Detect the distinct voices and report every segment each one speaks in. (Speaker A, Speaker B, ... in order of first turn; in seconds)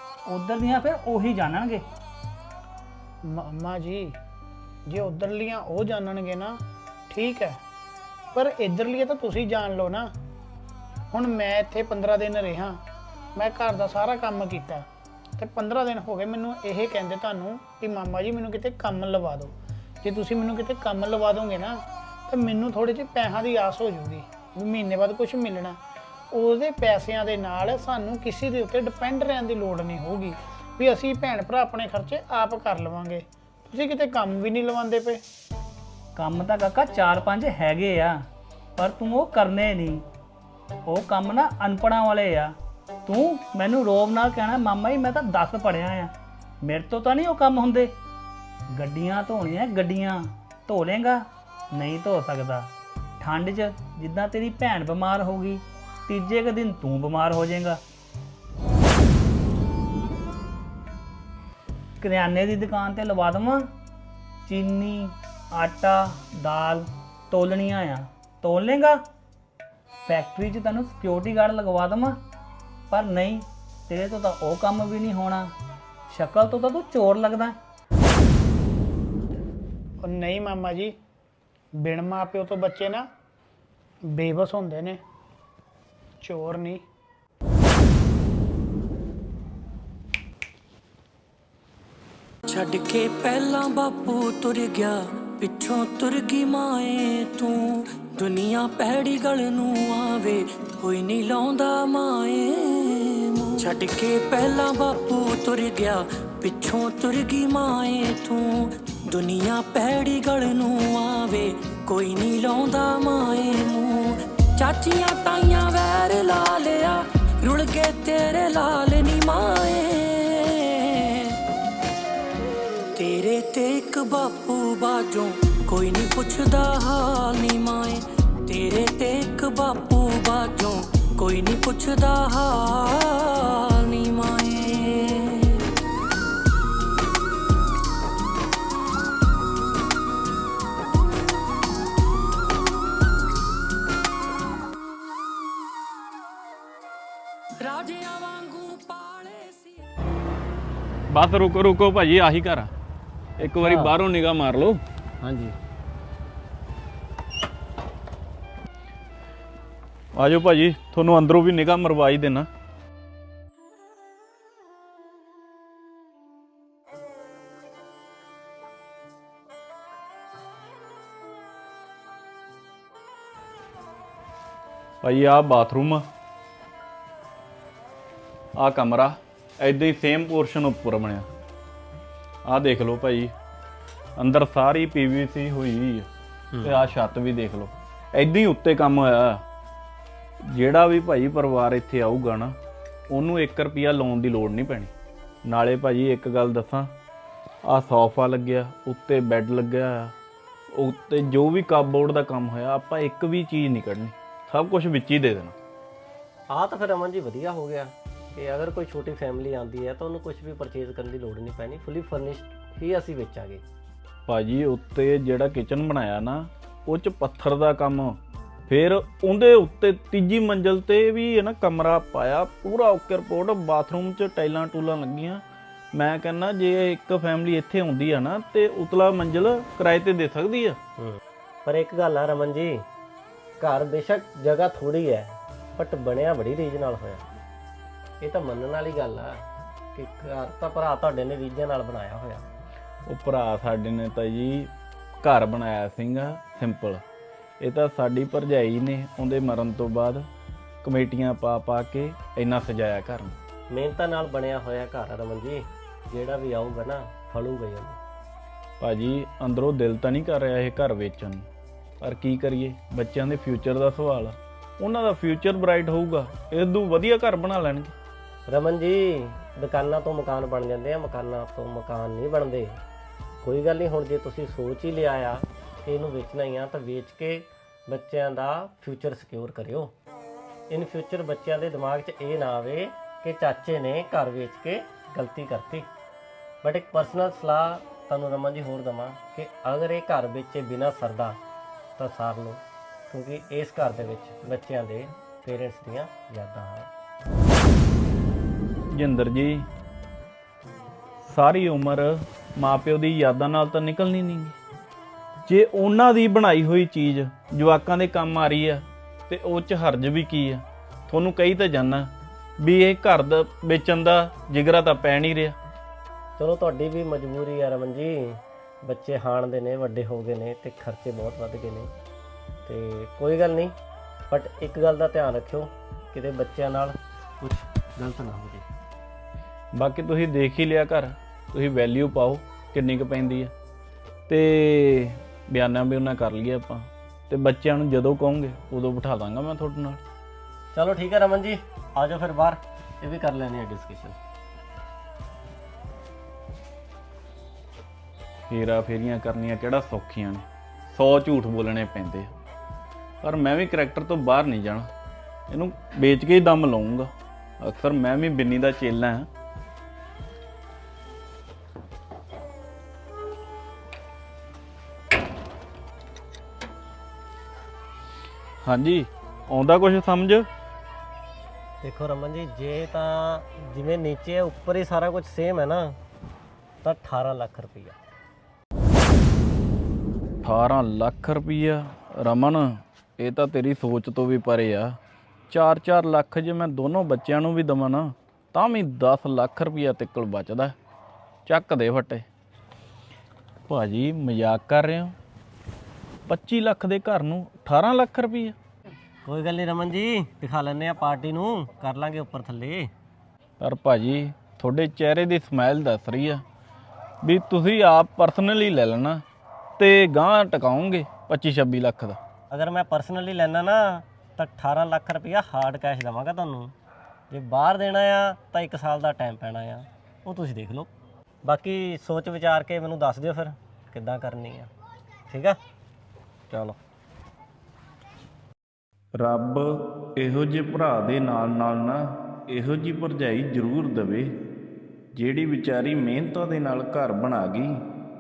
Speaker A: 0.3-1.8, 36.2-38.2, 38.8-40.0, 40.9-42.5, 43.1-47.9, 48.7-52.7, 53.2-57.8, 62.0-63.7, 64.5-69.0, 70.1-72.2, 72.9-75.5, 76.1-77.6
Speaker B: 3.2-4.2, 4.9-7.6, 8.3-10.1, 11.1-12.8, 13.3-25.8, 26.3-35.2, 80.0-81.0, 81.8-83.1, 84.0-85.0, 86.2-86.8
Speaker C: 92.5-121.4, 123.0-135.7, 147.6-149.9
Speaker D: 151.1-152.7, 153.4-154.8, 160.2-162.5, 175.0-176.1, 178.6-181.3, 182.5-183.3, 184.2-186.1, 186.6-189.4, 190.4-192.6, 193.1-194.9, 195.4-196.9, 197.7-200.2, 200.7-205.6, 214.3-225.4, 225.9-230.8, 243.1-244.7, 245.2-247.0, 247.6-250.3, 250.8-253.4, 258.8-261.5, 262.0-267.9, 298.9-299.7, 301.2-304.6, 305.5-315.6, 329.8-333.5, 334.3-340.0, 348.5-352.3, 353.2-354.9, 355.5-359.3, 368.6-370.5, 380.4-385.0, 385.5-390.8, 391.5-392.3, 393.7-395.1, 396.3-398.6, 403.6-406.4, 407.2-409.2, 409.8-412.2, 429.1-434.4, 435.1-437.8
Speaker E: 153.4-153.9, 155.2-155.6, 186.5-186.8, 206.5-213.6, 231.0-232.9, 233.6-237.2, 238.2-242.5, 253.7-258.0, 268.5-272.8, 273.4-279.9, 280.7-285.9, 286.6-291.4, 292.0-296.9, 316.4-321.9, 322.6-323.8, 324.3-328.7, 340.7-344.2, 371.8-376.0, 376.8-378.0, 399.2-402.9, 412.5-416.7, 417.3-420.9, 421.4-424.7, 425.3-425.6, 426.5-426.8